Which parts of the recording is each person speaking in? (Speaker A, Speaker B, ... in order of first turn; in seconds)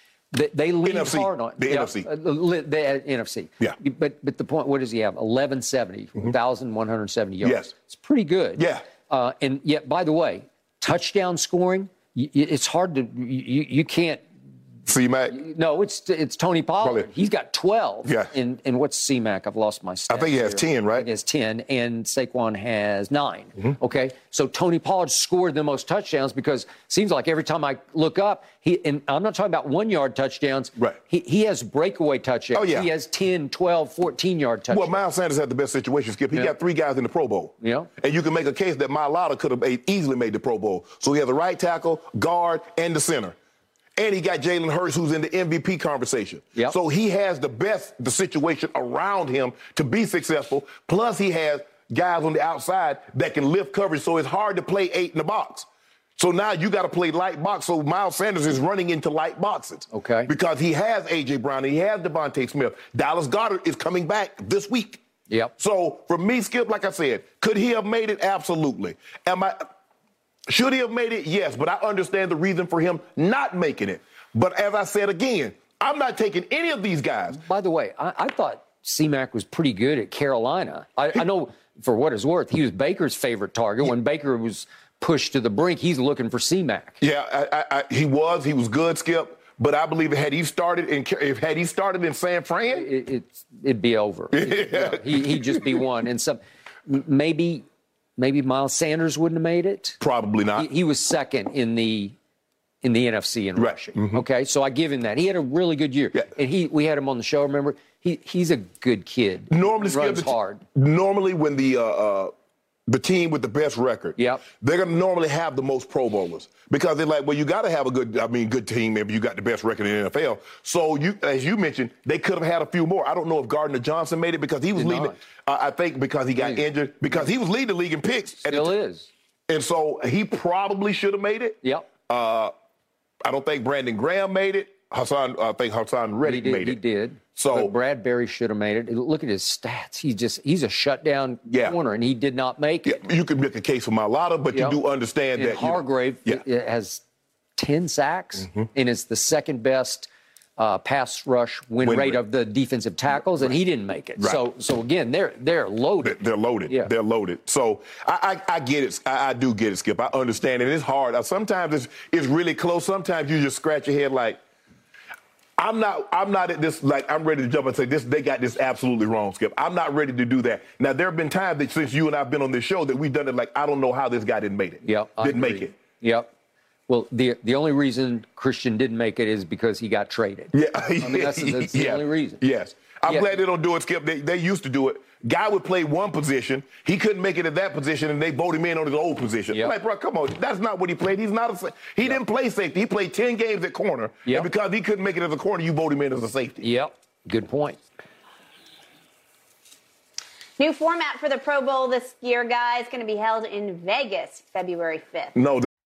Speaker A: 0.3-14.2, 15.3-35.0, 37.6-37.9, 59.9-60.3, 77.3-87.0, 92.7-97.7, 98.2-100.0, 100.6-102.2, 102.8-110.6, 114.2-114.5, 124.8-125.2, 126.4-127.3, 128.4-129.1, 136.2-143.0, 144.5-144.8, 145.3-147.0, 147.6-156.2, 174.8-176.3, 176.9-182.4, 196.6-197.8
Speaker B: 0.8-2.1, 7.4-7.7, 8.6-8.8, 14.9-15.4, 16.8-17.1, 18.1-18.3, 20.1-21.1, 32.5-32.9, 34.7-43.4, 44.0-65.0, 65.6-69.7, 70.5-77.4, 87.0-92.9, 94.3-95.8, 100.0-100.7, 103.6-104.2, 109.5-112.3, 112.9-128.8, 129.5-132.5, 133.2-136.8, 137.4-137.7, 141.5-141.8, 142.8-146.4, 151.8-152.2, 156.0-164.4, 165.6-175.8, 180.5-196.7, 205.4-205.7
Speaker C: 200.6-205.4